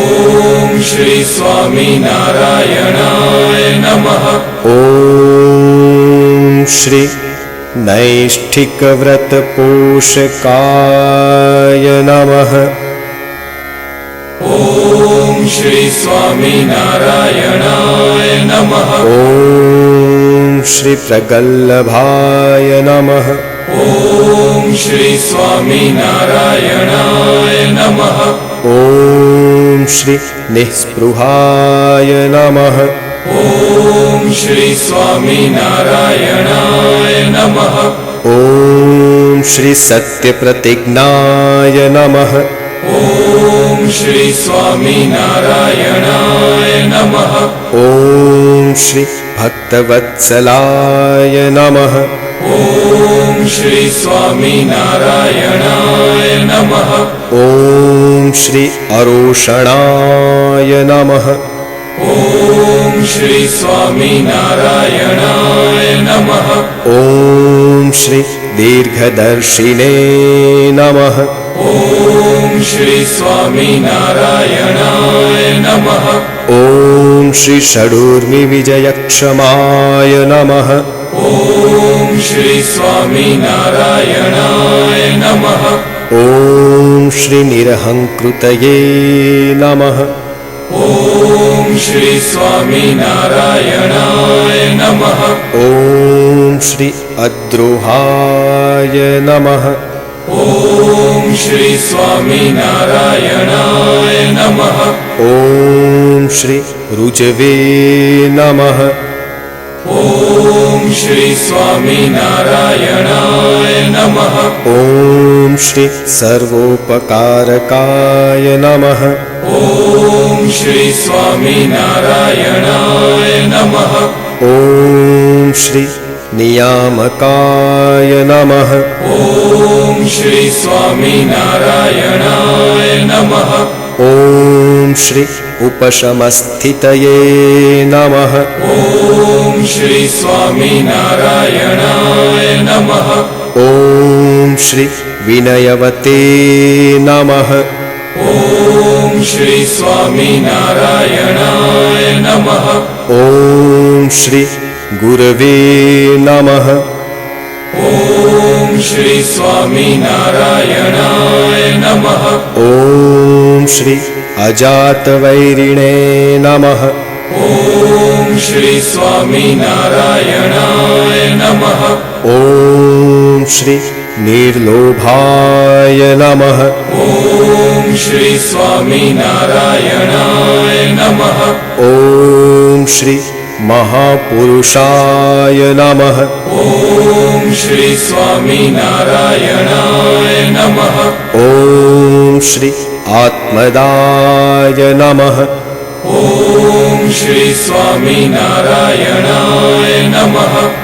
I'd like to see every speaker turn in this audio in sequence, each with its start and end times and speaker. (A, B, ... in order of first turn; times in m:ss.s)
0:00.2-0:04.0 A
0:04.5-0:12.8 B
0:15.2-0:18.4 A
0:18.9-0:23.6 B
0:24.5-0:27.8 A
0:28.6-0:33.2 B
0:34.2-0:37.4 A
0:38.2-0:42.5 B
0:43.7-0:46.9 A
0:47.6-0:52.3 B
0:53.2-0:56.5 A
0:57.2-1:01.5 B
1:02.8-1:06.0 A
1:06.7-1:11.5 B
1:12.2-1:15.6 A
1:16.4-1:21.0 B
1:22.0-1:25.2 A
1:26.1-1:30.2 B
1:31.5-1:34.8 A
1:35.3-1:39.9 B
1:41.1-1:44.5 A
1:45.1-1:49.0 B
1:50.7-1:53.9 A
1:54.5-1:59.4 B
2:00.5-2:02.8 A
2:04.4-2:09.1 B
2:10.0-2:12.3 A
2:14.0-2:18.7 B
2:19.6-2:22.7 A
2:23.4-2:27.8 B
2:29.1-2:32.3 A
2:32.9-2:37.0 B
2:38.5-2:41.9 A
2:42.4-2:47.0 B
2:48.1-2:51.3 A
2:52.1-2:57.1 B
2:57.8-3:01.0 A
3:01.6-3:06.5 B
3:07.2-3:10.6 A
3:11.2-3:15.6 B
3:16.7-3:20.4 A